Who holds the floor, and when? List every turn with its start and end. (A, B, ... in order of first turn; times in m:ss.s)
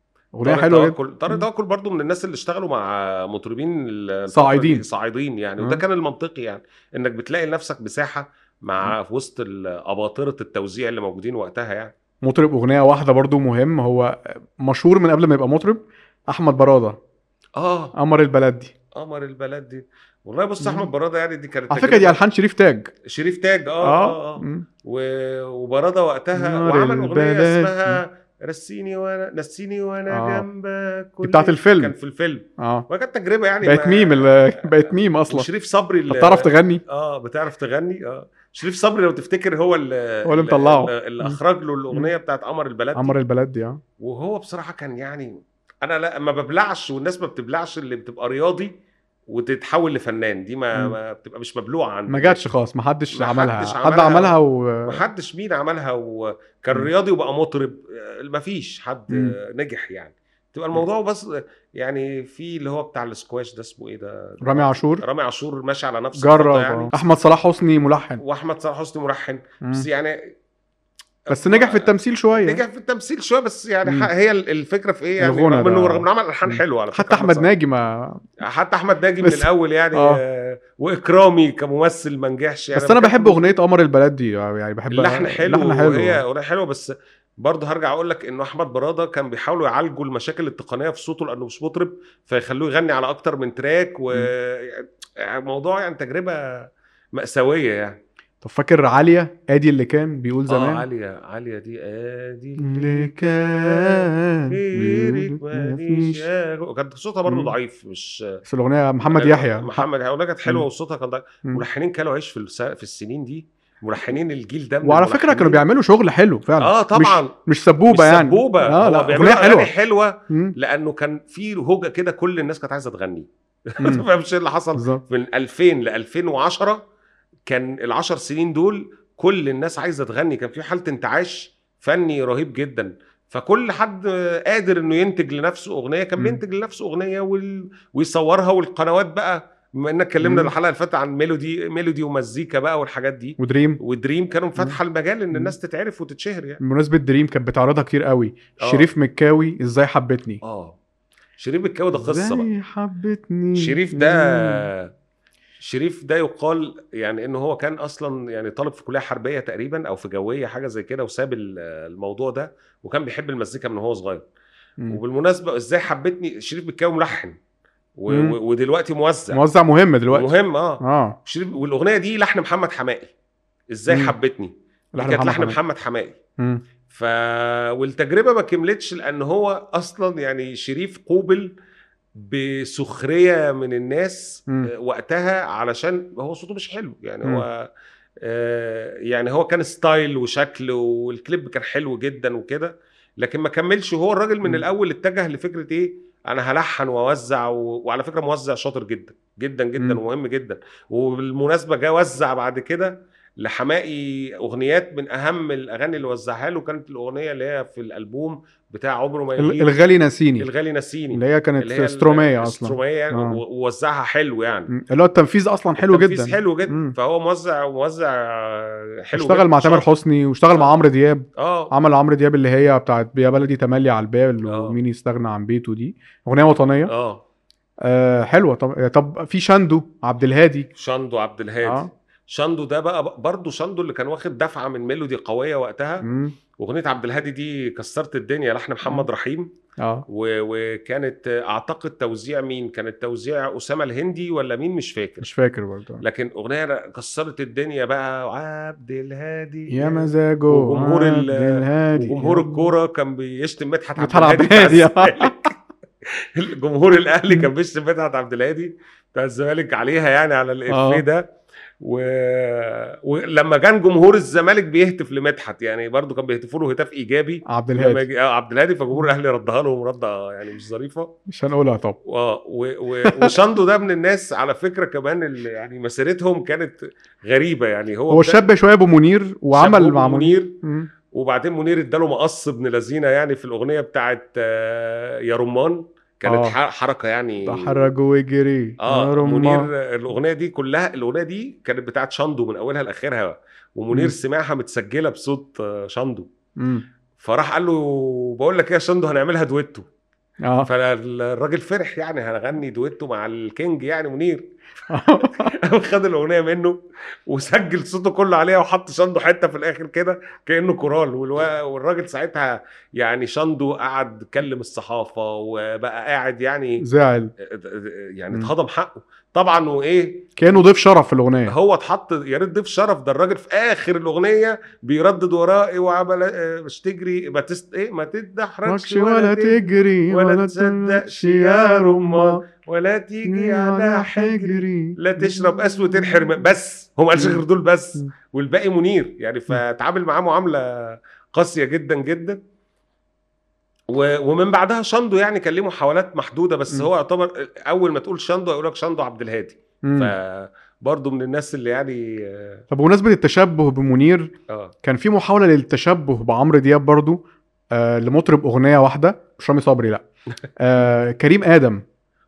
0:00.4-0:01.5 A
0:00.4-0:11.9 B
0:04.3-0:04.8 A
0:12.2-0:17.0 A
0:17.6-0:17.9 B
0:18.0-0:18.7 A
0:19.0-0:22.2 B
0:20.6-0:20.9 A
0:21.7-0:22.9 A
0:23.1-0:43.2 B
0:23.8-0:24.7 A
0:26.4-0:28.0 A
0:30.1-0:30.4 A
0:31.2-0:31.9 A
0:32.6-0:32.9 A
0:33.6-0:35.5 A
0:36.1-0:36.8 A
0:40.3-0:41.4 A
0:43.0-0:43.8 A
0:44.0-0:48.7 B
0:49.3-0:52.4 B
0:52.1-0:55.0 A
0:53.1-1:06.9 B
1:04.4-1:05.0 A
1:06.2-1:08.2 A
1:08.2-1:10.3 B
1:09.6-1:09.9 A
1:11.3-1:17.5 B
1:11.3-1:12.6 A
1:13.8-1:14.1 A
1:15.2-1:18.3 A
1:18.4-1:23.5 B
1:19.2-1:20.2 A
1:22.7-1:26.2 A
1:24.9-1:38.0 B
1:38.4-1:40.8 A
1:40.5-1:48.4 B
1:42.6-1:46.2 A
1:47.3-1:47.6 A
1:48.5-1:49.9 A
1:49.1-1:55.6 B
1:54.8-1:59.7 A
1:56.6-1:57.4 B
1:57.9-2:06.8 B
2:03.8-2:04.1 A
2:04.8-2:05.0 A
2:07.5-2:26.6 B
2:20.2-2:20.5 A
2:23.4-2:23.8 A
2:26.6-2:30.4 A
2:28.6-2:28.9 B
2:30.4-2:30.8 B
2:31.4-2:32.5 B
2:32.0-2:34.7 A
2:33.6-2:34.9 B
2:35.6-2:44.3 B
2:44.9-2:47.4 B
2:48.0-2:49.4 B
2:48.1-2:48.4 A
2:49.3-2:51.2 A
2:50.1-2:53.1 B
2:53.7-2:56.2 B
2:53.9-2:54.2 A
2:55.0-2:55.6 A
2:56.9-3:01.5 B
3:02.2-3:07.7 B
3:08.2-3:29.7 B
3:29.4-3:30.5 A
3:30.4-3:34.7 B
3:31.1-3:33.4 A
3:34.7-3:37.0 A
3:35.8-3:39.9 B
3:39.1-3:46.9 A
3:41.4-3:41.7 B
3:44.5-3:44.8 B
3:46.9-3:47.2 B
3:47.8-3:50.7 A
3:50.8-3:56.0 B
3:51.6-3:51.9 A
3:56.0-3:56.4 A
3:56.6-3:59.5 B
4:00.1-4:05.3 B
4:05.2-4:06.0 A
4:06.0-4:15.5 B
4:09.7-4:12.7 A
4:14.0-4:15.5 A
4:16.4-4:21.3 B
4:20.7-4:21.0 A
4:21.8-4:31.1 B
4:27.5-4:28.0 A
4:31.3-4:32.0 A
4:32.1-4:38.4 B
4:33.0-4:33.3 A
4:38.1-4:40.9 A
4:39.5-4:40.6 B
4:41.1-4:47.8 B
4:46.3-4:46.6 A
4:47.5-4:49.7 A
4:48.8-4:56.3 B
4:56.6-4:56.8 A
4:57.2-4:59.9 B
5:00.6-5:04.5 B
5:04.9-5:05.5 A
5:05.0-5:16.8 B
5:16.8-5:17.3 A
5:17.4-5:20.7 B
5:20.4-5:21.5 A
5:21.5-5:42.4 B
5:28.7-5:32.4 A
5:33.3-5:36.5 A
5:37.2-5:37.4 A
5:43.9-5:52.6 B
5:49.8-5:50.1 A
5:52.7-6:00.0 A
6:00.6-6:01.8 A